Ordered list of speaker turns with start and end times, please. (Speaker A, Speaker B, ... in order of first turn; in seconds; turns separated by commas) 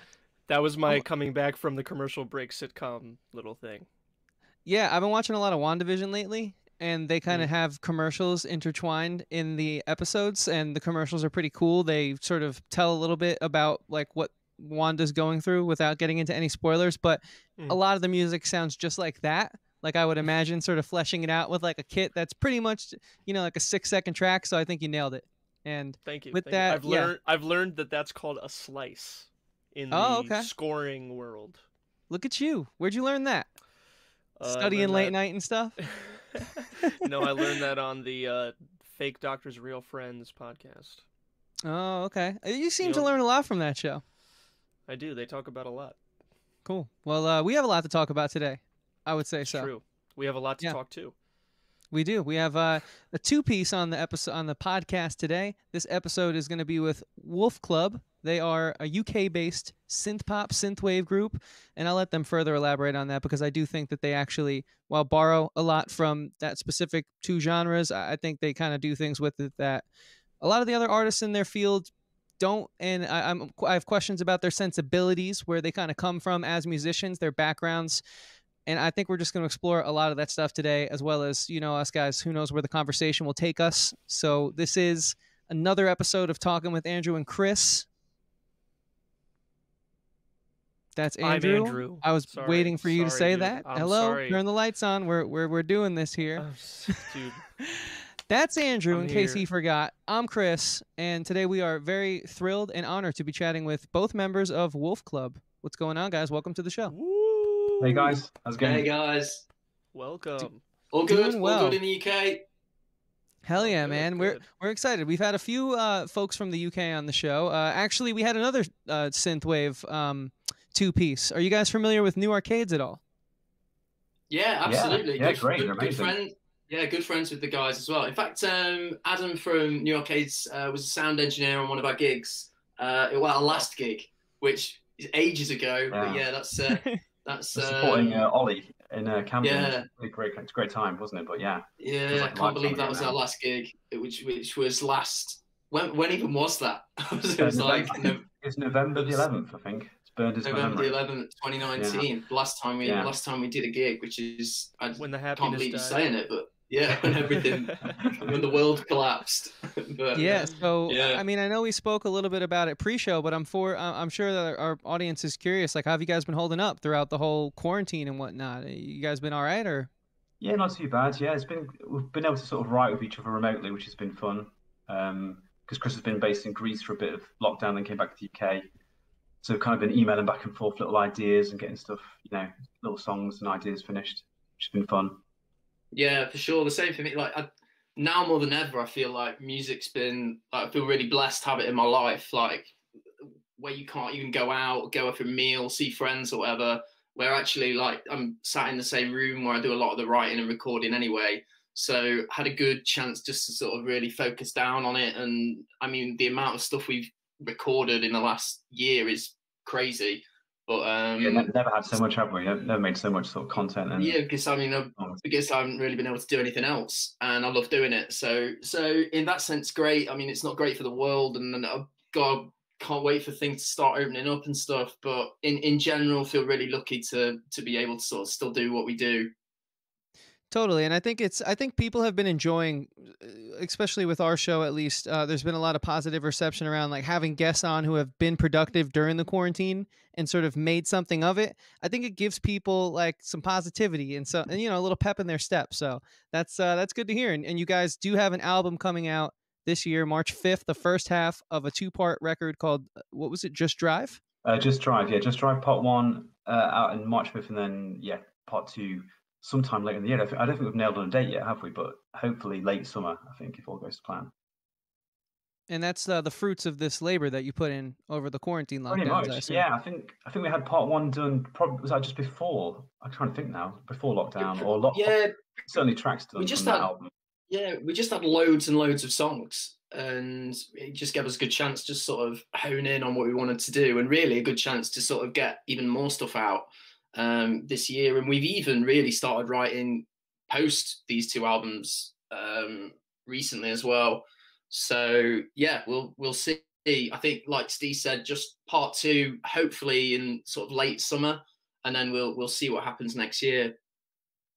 Speaker A: 0.5-3.9, Speaker B: 4.7-27.1, Speaker A: 26.1-31.6, Speaker B: 29.9-30.5, Speaker B: 32.1-33.5, Speaker A: 34.4-35.2, Speaker B: 34.4-35.8, Speaker A: 35.8-41.0, Speaker B: 41.6-44.0, Speaker A: 42.8-43.1, Speaker A: 44.9-46.0, Speaker B: 46.6-49.7, Speaker A: 49.4-51.1, Speaker B: 51.9-69.9, Speaker B: 70.4-78.0, Speaker B: 78.7-87.9, Speaker B: 91.0-97.0, Speaker A: 91.2-94.4, Speaker A: 96.4-97.5, Speaker B: 97.8-106.9, Speaker A: 98.9-99.5, Speaker A: 106.9-108.2, Speaker C: 107.8-108.9, Speaker D: 108.6-109.5, Speaker A: 109.9-110.6, Speaker D: 110.4-112.5, Speaker B: 111.1-111.8, Speaker B: 113.4-123.0, Speaker A: 113.6-114.5, Speaker D: 124.3-138.3, Speaker C: 124.6-126.2, Speaker C: 135.9-136.2, Speaker C: 137.5-143.2, Speaker D: 139.4-139.9, Speaker D: 141.8-148.2, Speaker C: 147.4-151.0, Speaker D: 149.0-149.2, Speaker D: 150.4-161.2, Speaker C: 151.8-152.1, Speaker C: 152.8-153.1, Speaker A: 155.0-156.2, Speaker A: 157.0-158.6, Speaker C: 158.0-158.3, Speaker B: 160.1-169.9, Speaker A: 160.2-160.6, Speaker C: 170.4-178.7, Speaker C: 179.4-185.2, Speaker D: 185.9-192.8, Speaker D: 193.6-211.5, Speaker C: 211.2-214.2, Speaker D: 214.0-229.3, Speaker C: 215.0-215.2, Speaker B: 230.5-254.2, Speaker C: 254.4-264.3, Speaker B: 265.7-269.6, Speaker C: 268.9-277.1, Speaker D: 274.4-275.5, Speaker D: 276.4-276.9, Speaker D: 277.5-303.8